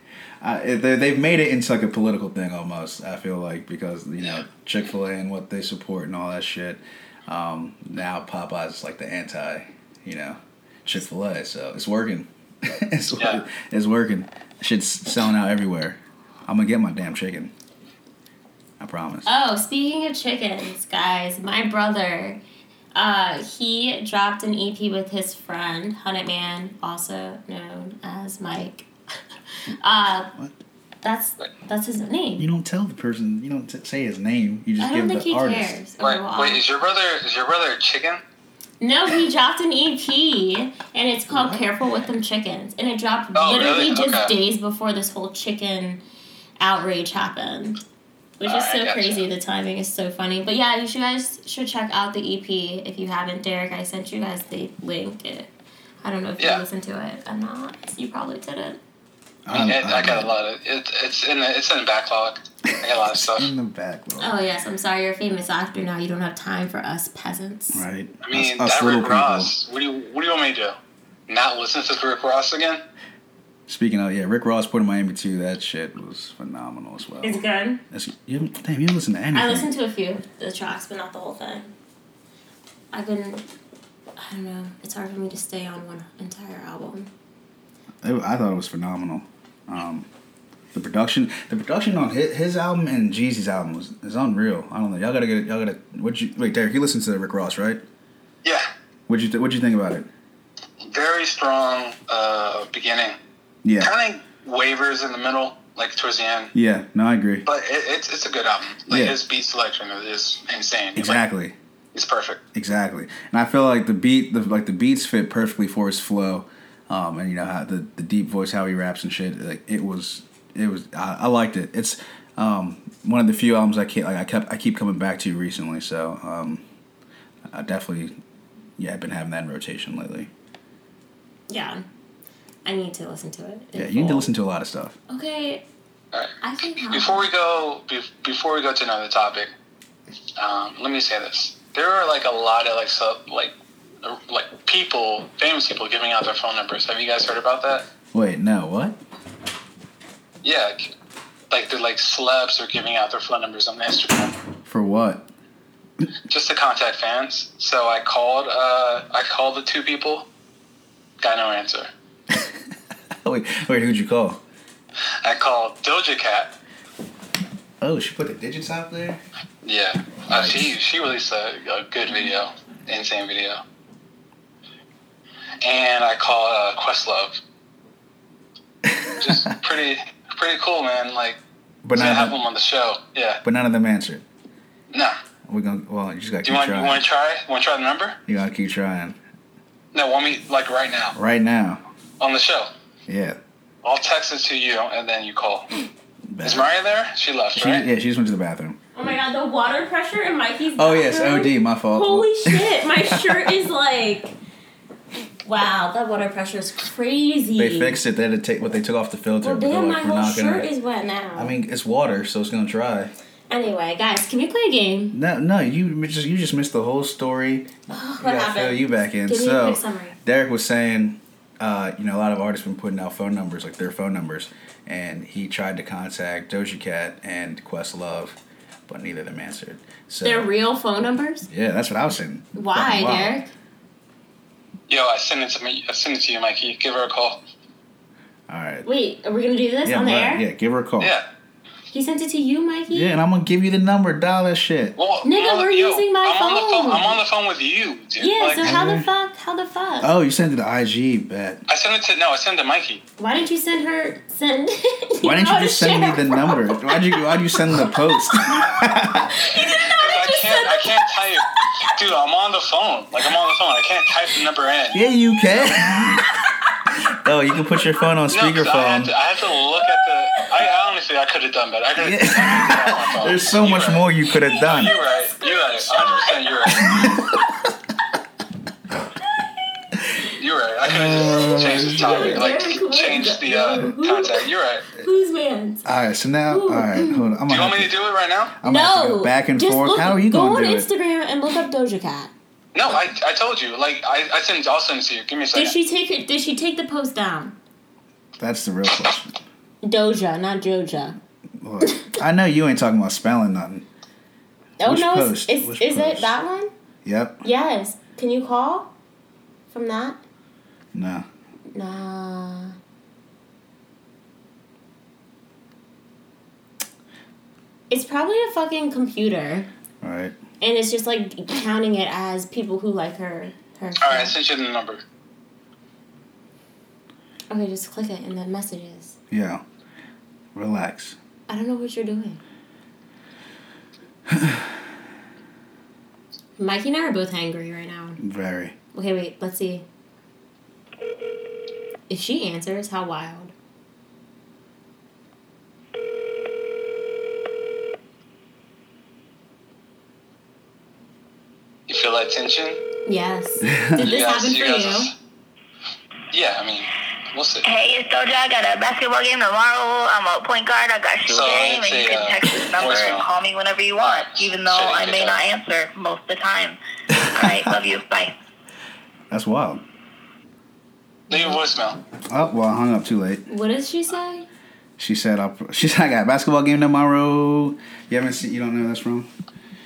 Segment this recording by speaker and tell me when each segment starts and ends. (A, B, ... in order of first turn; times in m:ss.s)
0:00.4-0:17.5 A
0:18.8-0:19.3 A
0:19.2-0:22.4 B
0:22.9-0:28.9 B
0:29.8-0:30.3 B
0:31.0-0:32.5 B
0:32.4-0:35.8 A
0:34.8-0:36.6 B
0:36.0-0:38.2 C
0:38.8-0:46.0 B
0:41.3-0:41.6 A
0:43.3-0:44.3 C
0:46.6-0:47.8 B
0:48.4-0:58.8 B
0:48.4-0:49.2 C
0:59.4-1:00.3 A
0:59.5-1:03.5 C
1:03.1-1:04.3 A
1:04.2-1:07.8 B
1:07.7-1:09.5 A
1:08.2-1:10.8 C
1:11.3-1:12.8 C
1:13.7-1:19.7 A
1:17.2-1:17.8 B
1:19.3-1:21.7 B
1:22.9-1:23.4 B
1:24.2-1:27.1 B
1:28.0-1:30.1 A
1:30.7-1:37.8 A
1:39.1-1:40.1 A
1:40.8-1:43.2 C
1:43.6-1:43.9 A
1:43.8-1:46.5 C
1:46.5-1:47.4 A
1:47.4-1:51.2 C
1:48.9-1:49.2 A
1:50.9-1:51.5 A
1:51.9-1:52.4 C
1:52.5-2:06.6 A
2:07.5-2:08.1 A
2:08.8-2:10.3 A
2:11.5-2:11.8 B
2:12.6-2:14.3 B
2:13.7-2:15.0 A
2:15.1-2:15.6 B
2:16.4-2:17.3 B
2:16.9-2:19.5 C
2:20.4-2:27.8 C
2:28.1-2:29.0 A
2:30.4-2:30.9 C
2:31.5-2:34.3 C
2:34.6-2:35.3 A
2:36.3-2:40.3 C
2:41.2-2:41.9 C
2:42.3-2:42.6 A
2:43.2-2:44.4 A
2:45.2-2:46.5 C
2:47.8-2:49.2 A
2:49.6-2:53.6 C
2:50.3-2:50.7 A
2:55.6-2:57.4 C
2:58.9-2:59.3 A
2:59.1-3:01.4 C
3:01.8-3:02.4 A
3:01.9-3:03.4 C
3:03.4-3:04.2 A
3:05.5-3:07.0 A
3:06.4-3:08.2 C
3:08.3-3:09.2 A
3:09.9-3:11.2 C
3:11.1-3:11.8 A
3:12.2-3:12.7 C
3:13.1-3:13.4 A
3:13.8-3:15.7 C
3:16.3-3:16.7 A
3:16.4-3:17.9 C
3:17.6-3:18.8 A
3:18.9-3:24.3 B
3:20.8-3:23.5 A
3:25.4-3:28.0 B
3:27.6-3:30.7 A
3:29.4-3:31.5 B
3:31.4-3:33.1 A
3:33.5-3:35.2 B
3:35.1-3:50.5 A
3:37.9-3:40.2 B
3:50.2-3:51.5 B
3:51.5-3:53.4 A
3:52.5-3:53.5 B
3:54.9-3:57.4 C
3:58.5-3:58.9 A
3:58.8-4:00.4 B
3:59.8-4:01.1 A
4:01.0-4:01.2 C
4:01.9-4:03.2 B
4:02.9-4:05.0 A
4:05.0-4:08.6 C
4:05.2-4:07.2 B
4:08.2-4:10.1 B
4:08.6-4:09.1 A
4:10.0-4:11.6 A
4:11.7-4:13.0 C
4:13.2-4:21.8 B
4:15.2-4:19.4 A
4:19.8-4:25.0 C
4:24.9-4:26.3 A
4:27.1-4:29.1 A
4:28.3-4:37.0 C
4:29.9-4:30.6 B
4:32.0-4:34.9 A
4:34.8-4:37.4 B
4:36.8-4:37.4 A
4:40.4-4:44.8 C
4:40.8-4:42.5 A
4:41.0-4:44.4 B
4:45.0-4:45.8 B
4:45.8-4:48.1 A
4:46.5-4:47.4 B
4:47.5-4:48.5 C
4:48.6-4:50.9 A
4:48.6-4:52.3 B
4:52.7-4:55.7 C
4:55.5-4:57.6 B
4:58.4-4:59.4 A
4:59.8-5:01.2 B
5:01.6-5:03.8 A
5:01.8-5:02.1 B
5:04.8-5:06.7 B
5:04.8-5:06.4 A
5:07.0-5:07.4 A
5:07.4-5:08.9 B
5:09.7-5:10.2 B
5:10.9-5:11.2 A
5:11.7-5:12.8 B
5:17.9-5:19.7 B
5:20.0-5:20.3 A
5:20.6-5:24.3 B
5:24.0-5:25.0 C
5:27.5-5:29.2 B
5:29.3-5:29.6 A
5:30.5-5:31.2 A
5:31.5-5:32.4 B
5:34.3-5:34.8 A
5:36.6-5:38.2 B
5:38.2-5:38.7 A
5:38.9-5:39.8 B
5:42.1-5:43.5 B
5:51.9-5:52.8 C
5:53.0-5:55.1 B
5:53.6-5:54.1 A
5:54.0-5:55.1 C
5:56.3-5:57.6 C
5:57.6-6:08.3 D
6:01.3-6:03.3 C
6:04.0-6:05.4 C
6:07.2-6:07.7 A
6:09.3-6:09.8 A
6:11.3-6:12.0 C
6:12.3-6:13.4 A
6:13.5-6:14.5 B
6:15.0-6:19.3 A